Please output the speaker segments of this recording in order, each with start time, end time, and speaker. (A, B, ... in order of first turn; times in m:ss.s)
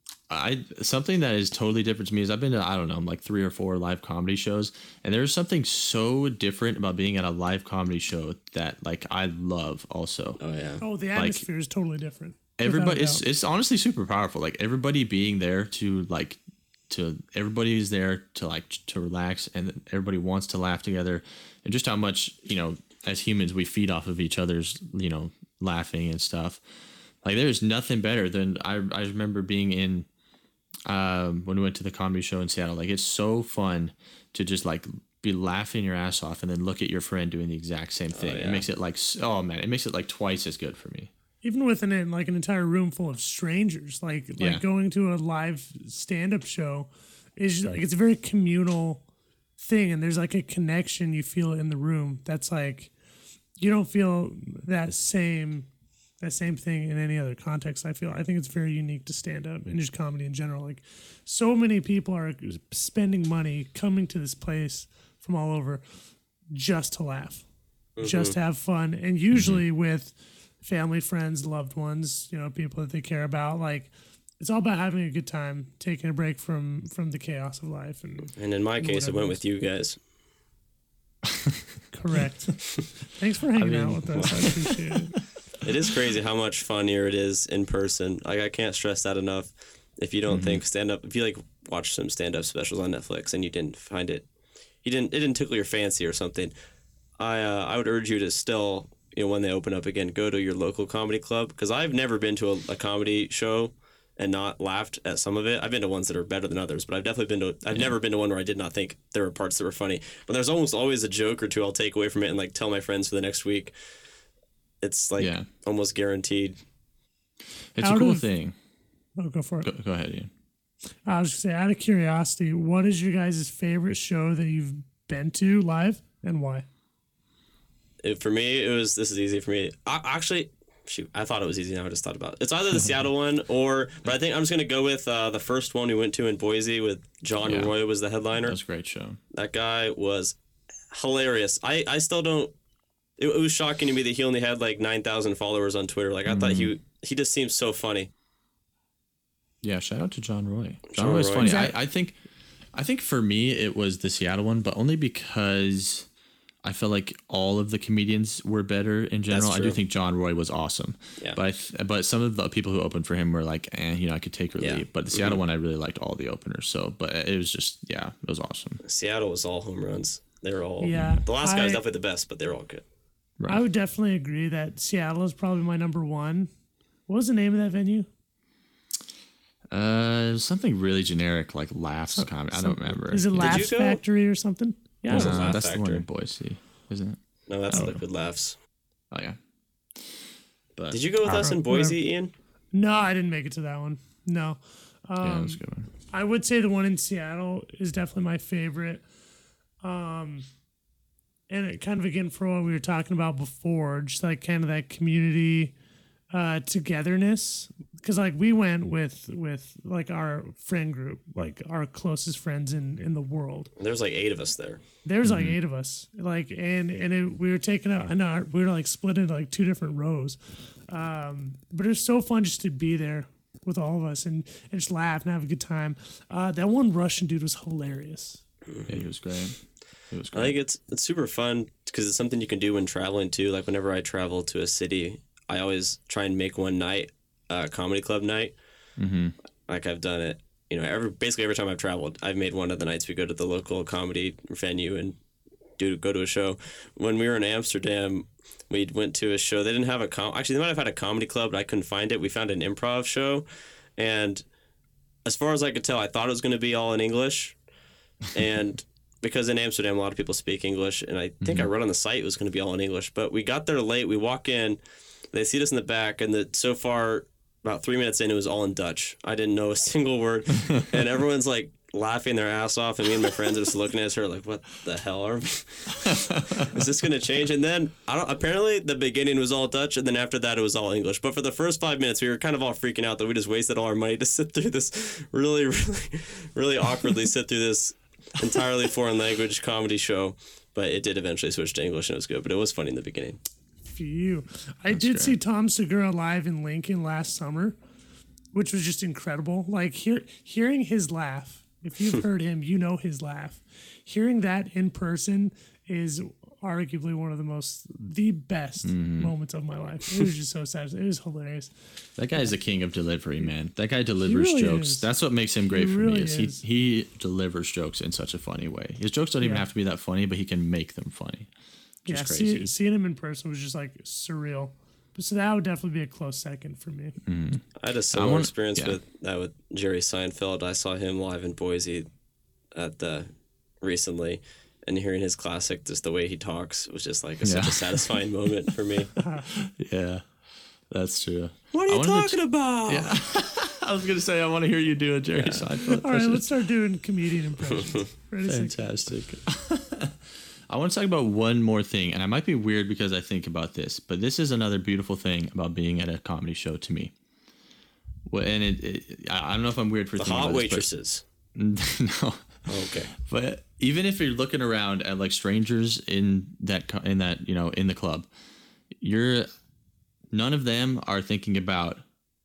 0:00.3-0:10.4 A
0:10.4-0:10.8 B
0:10.8-0:13.2 C
0:11.1-0:11.4 A
0:12.6-0:26.6 A
0:27.2-0:30.1 A
0:30.8-0:41.1 A
0:38.1-0:38.6 B
0:41.4-0:49.0 C
0:44.4-0:44.6 A
0:49.6-0:52.9 C
0:53.6-0:55.7 C
0:56.2-1:05.8 C
1:06.5-1:07.4 C
1:08.0-1:08.4 B
1:08.0-1:19.4 C
1:09.3-1:09.6 A
1:18.3-1:20.0 B
1:21.9-1:25.2 C
1:23.6-1:25.2 A
1:24.1-1:24.5 B
1:25.6-1:34.2 B
1:30.3-1:30.6 A
1:34.8-1:36.5 B
1:37.2-1:53.7 B
1:54.8-1:56.6 B
1:55.2-1:55.5 A
1:57.8-1:58.5 A
1:57.8-1:58.3 C
1:59.2-1:59.7 C
1:59.6-2:00.3 A
2:01.0-2:06.6 C
2:08.0-2:18.6 B
2:17.4-2:17.7 A
2:18.4-2:19.2 A
2:19.3-2:20.4 B
2:20.9-2:22.5 B
2:23.2-2:28.1 B
2:26.3-2:26.7 A
2:29.6-2:32.2 A
2:30.9-2:31.5 B
2:31.4-2:31.7 C
2:32.7-2:36.1 A
2:36.6-2:48.8 A
2:39.3-2:39.8 B
2:44.6-2:45.4 B
2:48.8-2:52.8 B
2:50.8-2:51.8 C
2:53.5-2:56.5 C
2:57.1-2:58.1 C
2:59.7-3:03.7 A
3:02.1-3:05.6 C
3:03.4-3:04.0 B
3:05.1-3:06.0 B
3:05.1-3:07.2 A
3:07.5-3:08.6 B
3:07.7-3:08.0 A
3:09.1-3:09.4 A
3:10.8-3:11.0 A
3:10.9-3:12.3 B
3:11.2-3:12.0 C
3:12.7-3:15.6 C
3:15.2-3:15.9 A
3:16.1-3:19.0 C
3:19.8-3:20.4 C
3:21.5-3:25.7 C
3:26.3-3:33.7 C
3:33.8-3:34.8 B
3:35.0-3:48.4 C
3:35.2-3:35.6 A
3:48.7-3:49.0 B
3:48.9-3:49.6 A
3:50.1-3:50.6 A
3:50.3-3:58.5 B
3:59.0-3:59.3 A
3:59.7-4:05.2 B
4:05.8-4:13.4 B
4:14.0-4:14.4 B
4:15.2-4:17.6 B
4:18.3-4:24.8 B
4:21.4-4:21.7 A
4:25.3-4:53.4 B
4:36.0-4:36.6 A
4:53.8-4:57.8 C
4:54.9-4:55.4 A
4:58.5-5:11.7 C
5:08.8-5:09.3 A
5:12.2-5:21.5 A
5:14.2-5:15.1 C
5:15.7-5:16.6 C
5:19.4-5:19.6 C
5:22.0-5:22.7 A
5:22.1-5:27.2 C
5:27.2-5:29.0 A
5:27.8-5:32.1 B
5:32.7-5:33.3 B
5:33.8-5:39.1 B
5:37.4-5:38.1 A
5:39.2-5:39.6 C
5:39.6-5:40.2 A
5:40.9-5:46.4 A
5:41.7-5:43.1 B
5:45.4-5:45.7 B
5:45.8-5:48.8 C
5:47.7-5:48.0 B
5:48.4-5:50.2 A
5:50.7-5:57.1 A
5:58.3-6:00.9 A
6:00.2-6:01.2 B
6:01.5-6:08.3 A
6:02.7-6:03.1 B
6:09.0-6:09.5 A
6:10.3-6:12.0 A